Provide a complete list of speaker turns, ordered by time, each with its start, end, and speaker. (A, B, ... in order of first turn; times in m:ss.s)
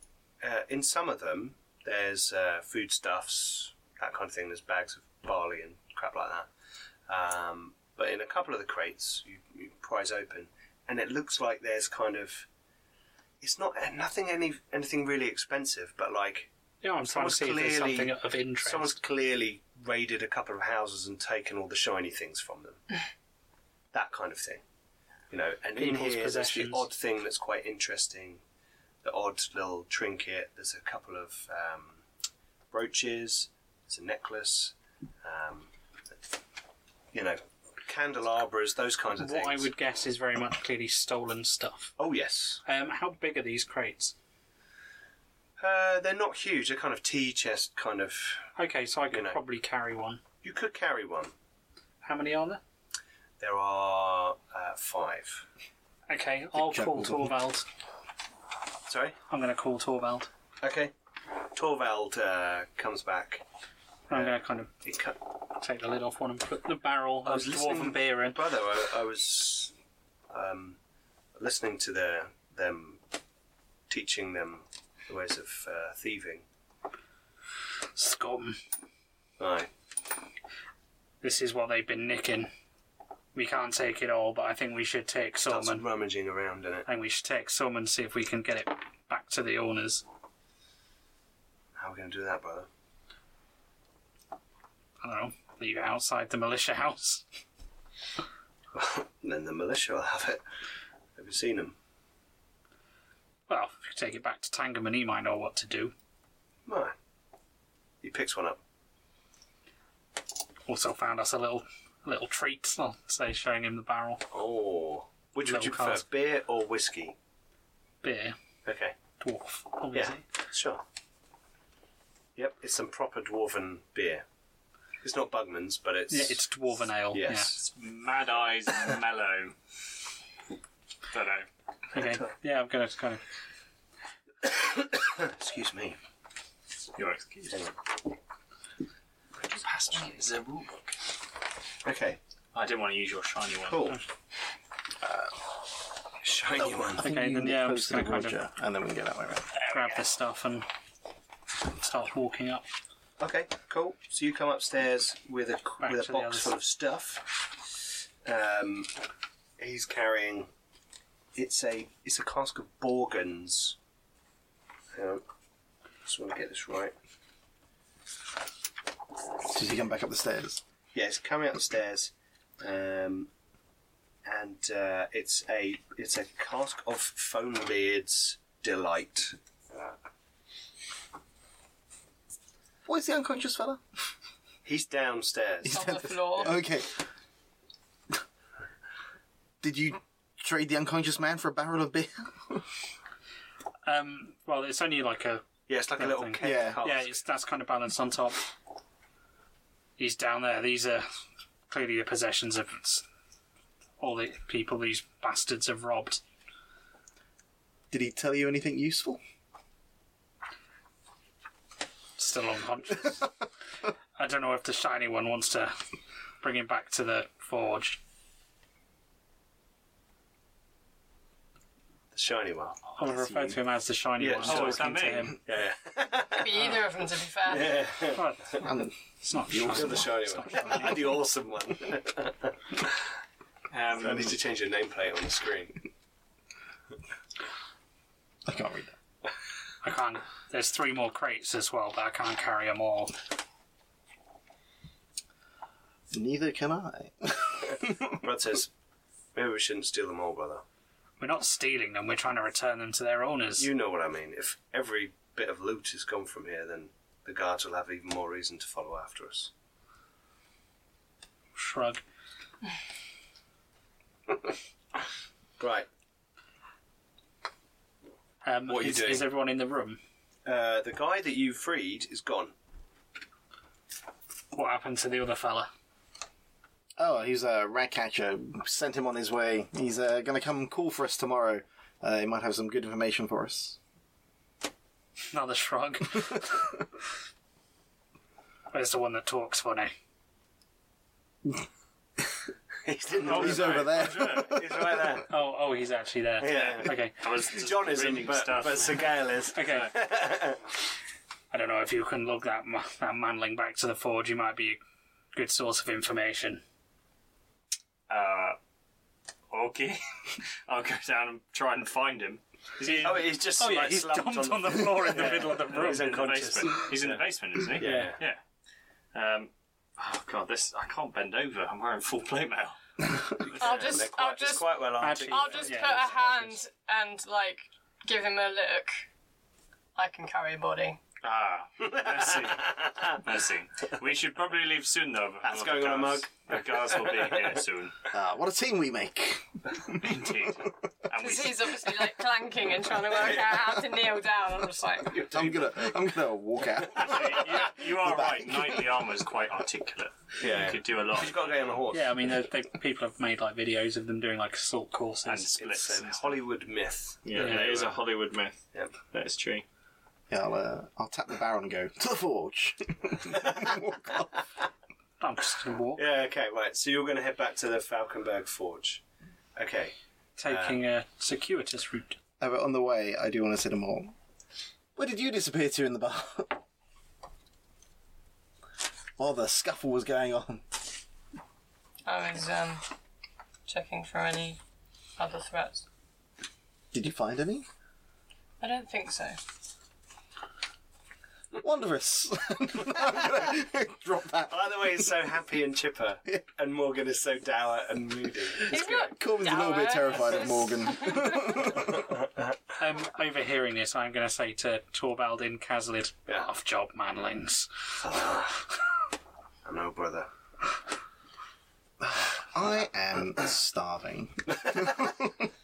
0:00.4-0:06.5 A
0:07.1-0:12.5 A
0:13.4-0:16.5 A
0:16.8-0:19.0 B
0:17.0-0:22.8 A
0:23.9-0:24.6 A
0:25.3-0:28.4 A
0:25.8-0:26.9 B
0:29.0-0:32.0 A
0:32.7-0:35.7 A
0:37.1-0:39.7 A
0:39.2-0:41.9 B
0:42.0-0:42.6 A
0:42.6-0:44.1 B
0:45.6-0:48.5 A
0:48.6-0:50.2 B
0:49.1-0:49.4 A
0:50.4-0:51.3 A
0:52.0-0:52.6 B
0:53.4-0:55.5 A
0:56.1-0:57.6 B
0:56.5-0:57.4 C
0:58.9-0:59.2 A
0:59.3-1:00.3 B
1:00.6-1:00.9 A
1:01.5-1:03.4 A
1:04.1-1:04.7 B
1:04.1-1:05.2 A
1:05.6-1:08.4 B
1:07.2-1:09.7 A
1:10.3-1:10.8 A
1:11.4-1:13.0 A
1:13.9-1:16.4 A
1:17.9-1:18.6 B
1:19.4-1:19.7 A
1:21.2-1:22.5 B
1:23.3-1:25.8 B
1:25.5-1:26.8 A
1:26.8-1:30.0 B
1:31.8-1:32.7 A
1:35.0-1:37.2 B
1:38.7-1:40.4 A
1:41.2-1:41.7 A
1:43.5-1:45.9 B
1:46.6-1:46.9 A
1:48.0-1:48.6 A
1:50.6-1:54.2 B
1:54.3-1:57.2 A
1:55.4-1:56.0 B
1:58.0-1:58.4 B
1:58.6-1:59.0 A
1:59.2-2:00.2 B
1:59.9-2:00.8 A
2:02.4-2:04.2 A
2:05.0-2:06.4 A
2:06.1-2:07.5 B
2:07.1-2:07.6 A
2:07.6-2:09.6 D
2:11.1-2:11.5 D
2:11.9-2:12.3 A
2:11.9-2:13.2 B
2:14.4-2:16.0 A
2:17.0-2:17.6 D
2:19.4-2:21.0 D
2:21.8-2:22.2 A
2:22.5-2:24.0 D
2:23.6-2:24.0 A
2:26.2-2:27.1 A
2:26.8-2:29.5 C
2:27.0-2:28.4 B
2:29.6-2:30.7 B
2:31.8-2:32.6 B
2:33.2-2:37.7 A
2:35.8-2:36.5 B
2:38.2-2:38.9 A
2:39.6-2:40.5 A
2:41.3-2:43.8 A
2:44.9-2:45.2 A
2:46.0-2:46.9 A
2:49.5-2:50.6 C
2:50.9-2:53.3 A
2:54.2-2:59.4 A
3:02.8-3:03.8 C
3:04.6-3:06.6 A
3:05.6-3:07.0 C
3:05.7-3:06.6 E
3:09.6-3:12.7 C
3:13.8-3:15.5 B
3:15.7-3:17.2 A
3:16.0-3:18.4 B
3:16.4-3:16.8 C
3:20.0-3:21.0 B
3:21.7-3:23.0 B
3:24.0-3:26.2 B
3:27.9-3:29.2 C
3:32.2-3:33.3 B
3:34.2-3:35.8 B
3:36.4-3:38.0 B
3:42.1-3:42.8 A
3:42.9-3:45.4 B
3:43.0-3:43.6 C
3:44.2-3:46.8 A
3:44.4-3:45.3 D
3:46.4-3:47.8 E
3:47.5-3:48.5 A
3:48.1-3:48.7 B
3:48.6-3:50.1 C
3:49.2-3:51.2 B
3:49.7-3:52.9 A
3:53.7-3:54.4 D
3:53.9-3:55.8 A
3:58.4-3:58.9 C
3:59.8-4:03.1 B
4:06.1-4:08.1 C
4:07.6-4:08.7 A
4:09.3-4:10.6 A
4:11.2-4:13.7 B
4:13.6-4:19.5 A
4:21.5-4:22.0 B
4:25.6-4:25.9 A
4:28.4-4:30.0 B
4:28.7-4:29.3 A
4:30.4-4:32.5 A
4:34.5-4:35.7 B
4:37.0-4:43.8 C
4:45.3-4:46.8 B
4:48.7-4:49.9 B
4:52.8-4:55.3 A
4:53.2-4:54.5 C
4:53.2-4:54.6 D
4:55.3-4:57.2 B
4:56.4-5:00.7 A
4:56.5-4:59.8 D
4:59.5-5:00.0 B
5:01.5-5:04.8 B
5:05.3-5:06.6 B
5:08.1-5:08.6 D
5:09.5-5:13.2 D
5:12.8-5:16.4 B
5:13.0-5:18.2 A
5:15.1-5:18.4 D
5:17.8-5:18.1 B
5:19.1-5:22.8 D
5:23.4-5:26.2 A
5:23.6-5:29.0 E
5:25.0-5:26.6 B
5:29.9-5:31.0 E
5:31.2-5:38.0 D
5:31.8-5:33.2 A
5:35.4-5:37.5 A
5:38.1-5:40.7 C
5:40.0-5:41.9 D
5:41.2-5:45.2 E
5:45.1-5:46.1 A
5:45.3-5:49.0 C
5:46.9-5:51.8 D
5:50.4-5:52.1 A
5:51.9-5:55.7 B
5:55.2-5:56.3 D
5:55.5-5:57.9 A
5:57.2-5:59.6 D
5:57.3-5:57.8 B
6:00.3-6:04.3 C
6:05.2-6:06.0 B
6:05.9-6:09.0 A
6:09.6-6:10.8 A
6:10.4-6:12.2 B
6:12.4-6:14.1 C
6:15.0-6:16.6 C
6:19.2-6:20.6 C
6:22.0-6:22.8 E
6:23.7-6:24.6 E
6:25.2-6:25.8 E
6:26.9-6:27.6 C
6:28.6-6:29.4 E
6:31.5-6:35.0 C
6:34.5-6:39.1 A
6:38.7-6:41.8 E
6:38.7-6:42.1 C
6:42.8-6:47.7 B
6:48.0-6:48.6 A
6:49.6-6:50.3 A
6:52.0-6:55.4 C